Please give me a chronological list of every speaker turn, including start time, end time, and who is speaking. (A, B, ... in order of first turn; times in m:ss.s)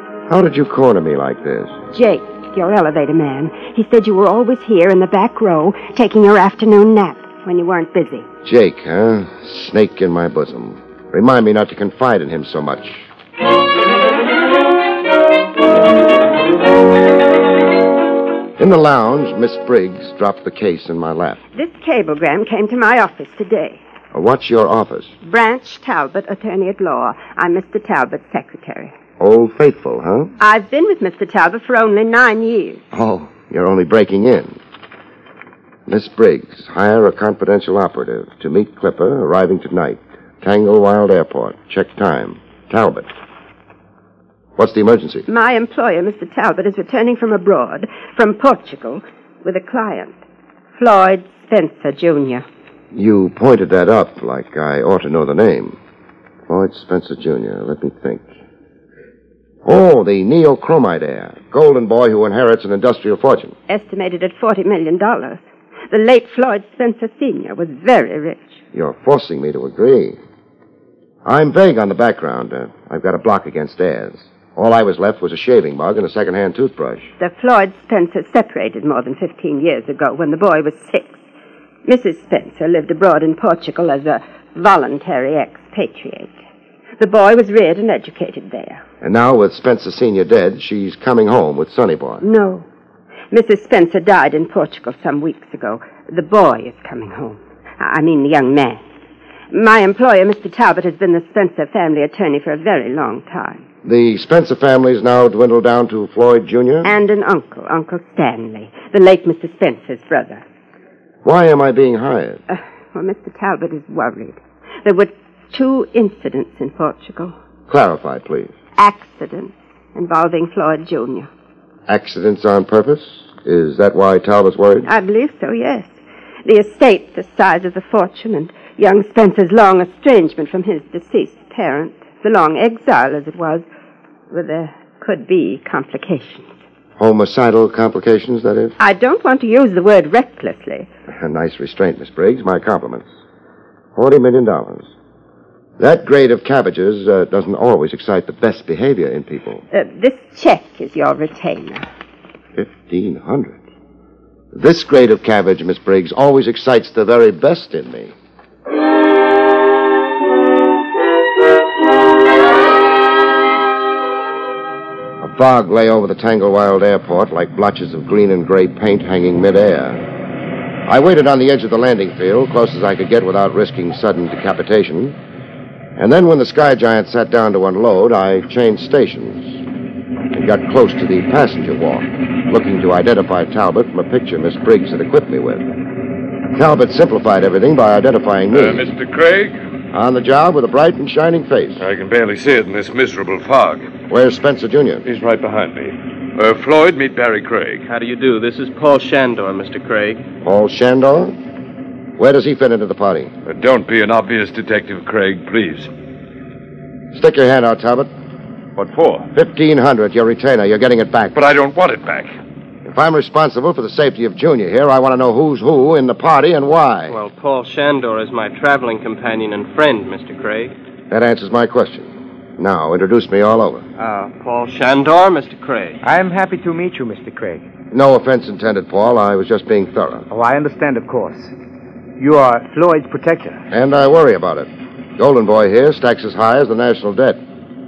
0:00.3-0:01.8 A
0:01.9-0:08.3 B
0:08.4-0:13.1 A
0:18.6-0:21.4 A
0:21.5-0:23.8 B
0:24.1-0:25.1 A
0:25.2-0:28.9 B
0:29.2-0:30.3 A
0:30.4-0:32.8 B
0:32.9-0:34.6 A
0:35.9-0:43.1 A
0:44.6-0:45.3 A
0:45.3-0:50.2 B
0:50.8-0:52.5 B
0:52.9-0:55.8 A
0:56.5-0:58.3 A
0:59.6-1:03.6 A
1:03.7-1:08.6 B
1:08.7-1:10.2 A
1:11.2-1:17.1 A
1:17.2-1:21.2 B
1:21.8-1:26.4 B
1:27.0-1:28.8 B
1:29.0-1:32.2 A
1:32.2-1:32.7 B
1:33.3-1:38.8 B
1:39.5-1:43.6 B
1:43.8-1:46.9 A
1:46.8-1:50.4 B
1:51.2-1:52.4 A
1:52.5-1:57.3 B
1:57.7-1:58.5 A
1:58.8-2:01.3 B
2:01.9-2:04.9 A
2:04.9-2:13.7 B
2:14.3-2:16.6 B
2:17.0-2:18.8 A
2:18.8-2:20.9 B
2:21.1-2:23.1 A
2:24.0-2:24.9 A
2:25.8-2:29.6 A
2:29.7-2:31.8 B
2:32.6-2:33.6 A
2:34.5-2:38.1 A
2:45.2-2:50.0 A
2:50.9-2:55.2 A
2:56.0-2:59.6 A
3:00.3-3:05.7 A
3:06.5-3:08.9 A
3:08.5-3:09.6 C
3:09.9-3:11.8 A
3:11.8-3:13.9 C
3:14.1-3:15.0 A
3:15.1-3:17.9 C
3:17.9-3:20.2 D
3:20.4-3:21.4 A
3:22.2-3:23.3 A
3:23.5-3:25.9 C
3:27.1-3:28.1 A
3:28.8-3:29.3 C
3:29.4-3:31.4 A
3:31.4-3:32.3 C
3:32.8-3:37.2 A
3:37.1-3:40.7 D
3:41.1-3:43.8 A
3:44.0-3:46.0 D
3:46.0-3:47.7 E
3:47.9-3:50.3 A
3:50.3-3:51.5 E
3:52.2-3:53.6 E
3:53.7-3:57.4 A